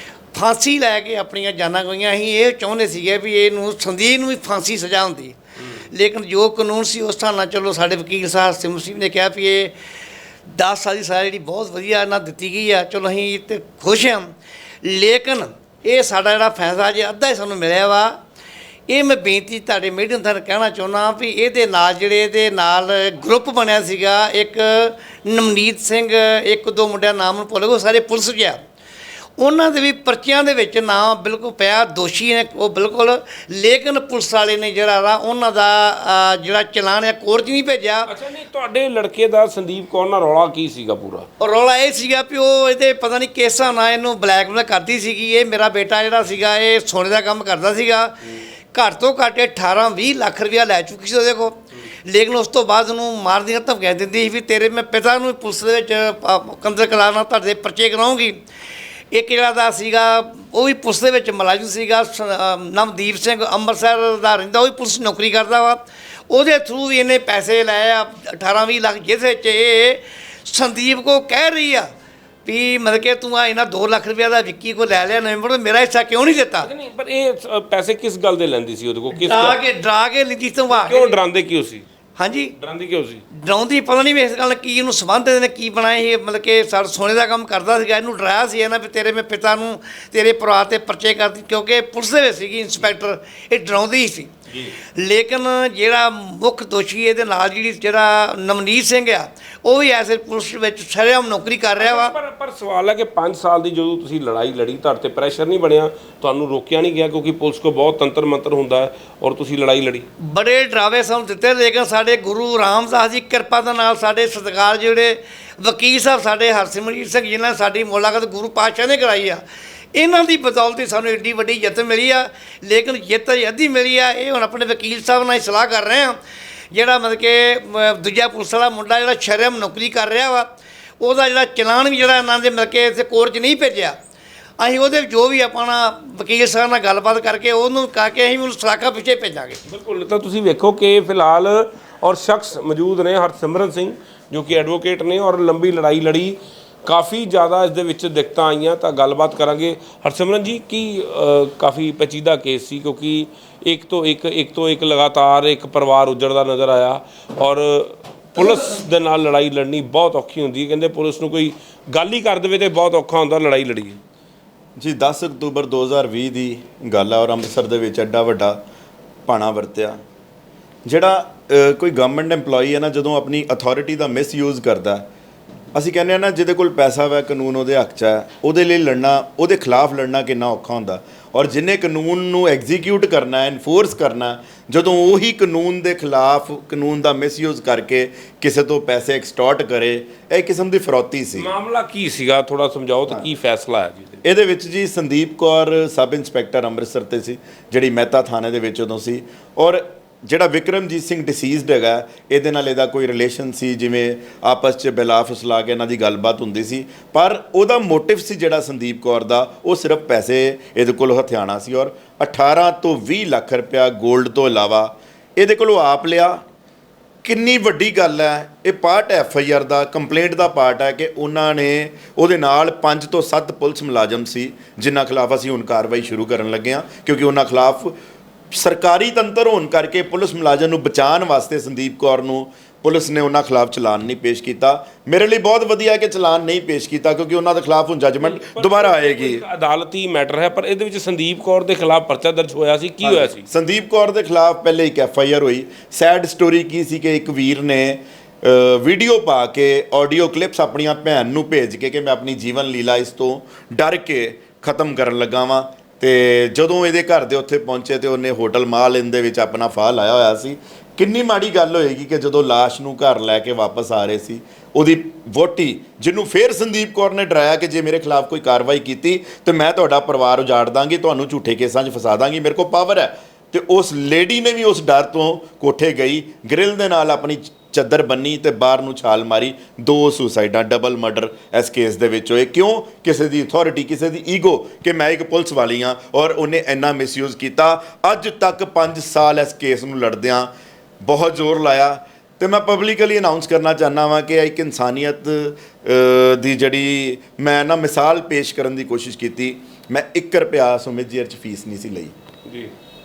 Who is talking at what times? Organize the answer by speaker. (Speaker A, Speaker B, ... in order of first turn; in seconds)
Speaker A: 0.3-9.7, 10.5-18.2, 18.9-28.6, 29.4-38.1, 41.4-58.4, 59.1-71.9, 72.4-76.7, 79.1-81.2, 82.2-82.5, 83.3-102.1, 110.2-119.4, 119.9-126.2, 126.7-133.9, 134.6-139.6
Speaker B: 38.1-41.3, 76.6-79.6, 80.7-81.8, 82.6-83.2, 101.8-110.1, 139.7-164.0, 191.3-194.2, 238.2-243.4, 302.4-302.7
Speaker C: 164.8-168.6, 169.3-170.0, 170.8-175.1, 175.7-191.5, 194.2-216.4, 217.2-227.9, 228.5-239.4, 243.0-290.5, 291.0-302.1